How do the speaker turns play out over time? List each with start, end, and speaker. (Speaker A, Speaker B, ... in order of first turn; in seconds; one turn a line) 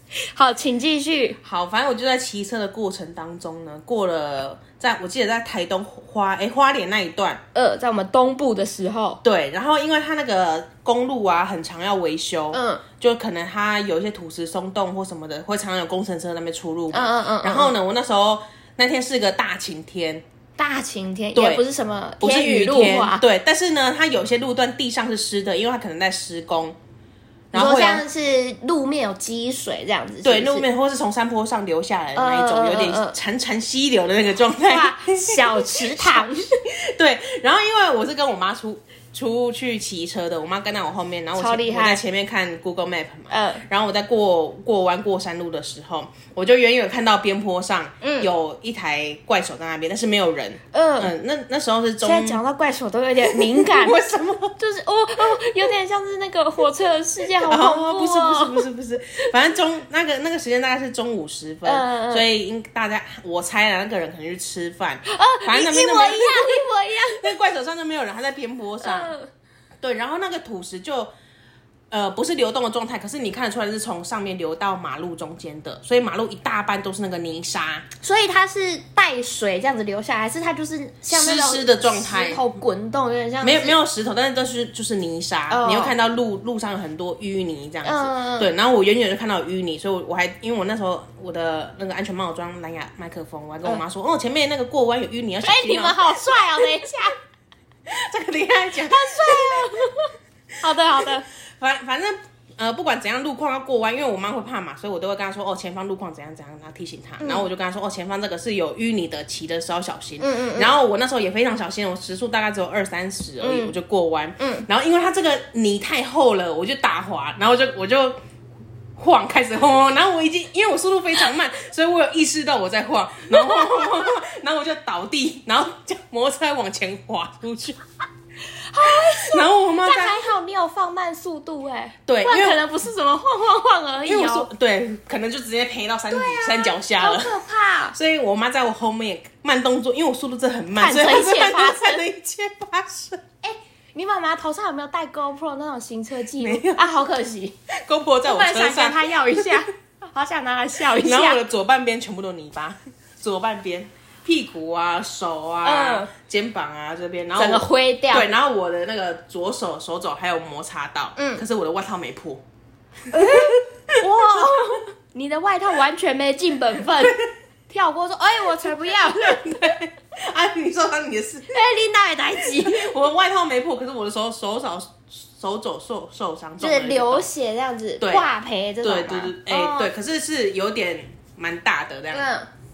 Speaker A: 0.2-1.4
Speaker B: 1.4-7.4
Speaker A: 7.5-9.2
Speaker B: 9.2-20.2
Speaker A: 12.5-12.8
Speaker A: 16.9-17.7
Speaker A: 20.6-23.2
Speaker B: 21.4-21.6
Speaker B: 22.2-26.8
Speaker B: 27.5-28.1
Speaker A: 27.5-30.7
Speaker B: 30.2-52.4
Speaker A: 32.1-33.2
Speaker A: 34.7-36.6
Speaker A: 41.4-42.0
Speaker A: 43.3-43.6
Speaker A: 48.0-48.3
Speaker A: 50.7-51.1
Speaker A: 52.0-54.0
Speaker B: 53.3-54.5
Speaker A: 54.6-58.7
Speaker B: 57.4-66.6
Speaker A: 61.6-62.3
Speaker A: 65.1-67.3
Speaker B: 67.2-69.1
Speaker A: 68.8-69.3
Speaker B: 69.8-71.1
Speaker B: 71.9-77.8
Speaker A: 78.0-83.8
Speaker B: 81.1-82.4
Speaker B: 83.4-96.7
Speaker A: 85.5-85.9
Speaker A: 87.8-88.5
Speaker A: 95.4-97.1
Speaker B: 97.9-99.9
Speaker A: 98.8-101.3
Speaker B: 101.0-118.2
Speaker A: 107.2-107.5
Speaker A: 110.2-110.8
Speaker A: 113.4-113.7
Speaker A: 114.4-114.7
Speaker B: 119.0-127.8
Speaker A: 123.3-123.9
Speaker A: 128.5-134.5
Speaker B: 128.8-130.3
Speaker B: 132.1-132.6
Speaker B: 134.1-137.3
Speaker A: 136.1-138.0
Speaker B: 137.9-143.2
Speaker A: 140.8-142.0
Speaker A: 143.4-147.6
Speaker B: 146.4-146.8
Speaker B: 147.7-149.6
Speaker A: 148.2-151.4
Speaker B: 150.9-162.4
Speaker A: 155.6-156.1
Speaker A: 157.4-158.3
Speaker A: 161.2-161.4
Speaker A: 163.1-169.6
Speaker B: 163.1-164.5
Speaker B: 169.2-171.6
Speaker A: 171.5-172.9
Speaker B: 172.4-177.3
Speaker A: 176.6-179.9
Speaker B: 178.0-178.3
Speaker B: 178.8-182.3
Speaker A: 182.1-182.5